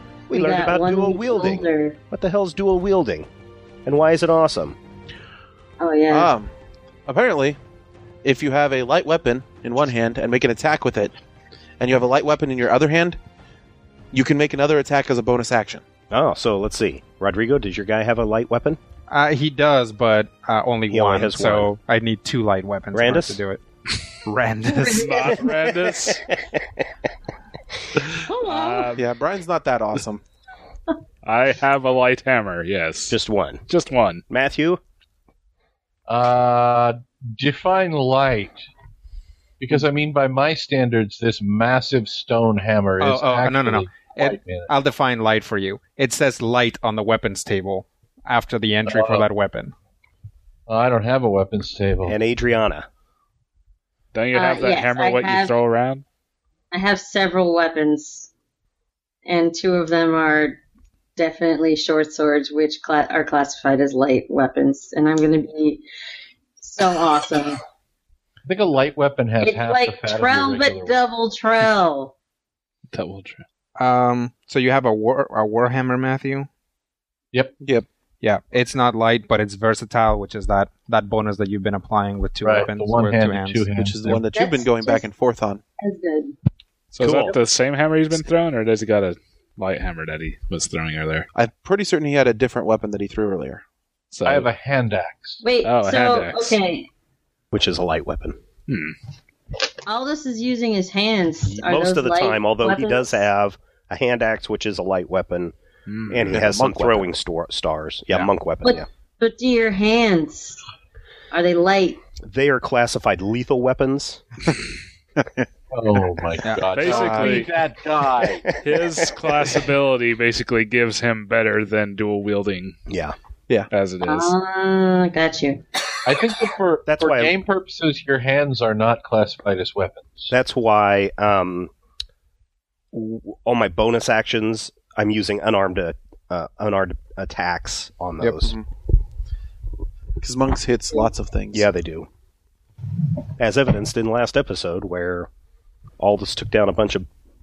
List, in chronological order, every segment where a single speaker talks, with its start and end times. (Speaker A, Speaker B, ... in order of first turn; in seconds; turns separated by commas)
Speaker A: 0.3-3.3, Speaker B: 0.3-2.0, Speaker A: 3.9-4.8, Speaker B: 5.8-6.3, Speaker C: 6.1-6.5, Speaker C: 7.1-7.6, Speaker C: 8.2-11.1, Speaker C: 11.8-13.2, Speaker C: 14.1-15.8, Speaker A: 16.1-18.8, Speaker D: 19.1-23.6, Speaker A: 20.9-21.7, Speaker A: 22.9-23.4, Speaker D: 24.2-25.1, Speaker B: 24.8-25.3, Speaker E: 24.8-26.2, Speaker A: 25.1-26.9, Speaker E: 28.0-29.0, Speaker B: 28.2-28.9, Speaker C: 28.9-30.2, Speaker E: 31.2-33.2, Speaker A: 33.1-33.6, Speaker E: 33.7-34.2, Speaker A: 34.3-34.8, Speaker F: 36.1-38.6, Speaker F: 39.6-44.7, Speaker D: 43.0-49.7, Speaker F: 48.9-49.3, Speaker F: 50.7-52.2, Speaker A: 52.0-52.9, Speaker E: 54.1-56.0, Speaker B: 54.3-55.5, Speaker B: 56.7-58.3, Speaker B: 59.2-60.6, Speaker B: 61.2-65.8, Speaker B: 66.6-67.6, Speaker F: 68.4-71.0, Speaker B: 69.4-72.1, Speaker E: 72.9-73.4, Speaker D: 73.8-76.5, Speaker C: 77.6-77.8, Speaker D: 78.2-83.7, Speaker F: 82.4-84.2, Speaker C: 83.8-85.6, Speaker B: 84.1-85.1, Speaker B: 85.8-86.3, Speaker E: 86.9-91.3, Speaker A: 87.0-87.3, Speaker C: 87.0-87.3, Speaker C: 91.3-93.6, Speaker E: 94.1-94.5, Speaker F: 94.2-95.4, Speaker B: 95.4-96.9, Speaker E: 95.6-96.6, Speaker A: 97.5-98.4, Speaker E: 98.7-98.9, Speaker B: 99.8-103.2, Speaker A: 101.4-105.5, Speaker E: 105.9-106.4, Speaker A: 106.1-108.9, Speaker C: 106.3-107.1, Speaker B: 108.6-110.6, Speaker B: 111.3-112.0, Speaker A: 112.2-114.2, Speaker C: 115.2-115.4, Speaker F: 115.7-118.5, Speaker E: 116.7-117.5, Speaker C: 116.8-117.5, Speaker A: 118.5-119.1, Speaker E: 118.6-122.8, Speaker A: 122.9-123.1, Speaker E: 123.7-124.3, Speaker B: 124.0-125.6, Speaker F: 126.0-130.3, Speaker A: 126.9-127.3, Speaker A: 130.3-131.7, Speaker A: 132.9-138.6, Speaker C: 138.2-138.6, Speaker C: 140.2-141.7, Speaker A: 141.5-142.1, Speaker A: 143.4-145.3, Speaker A: 146.0-147.1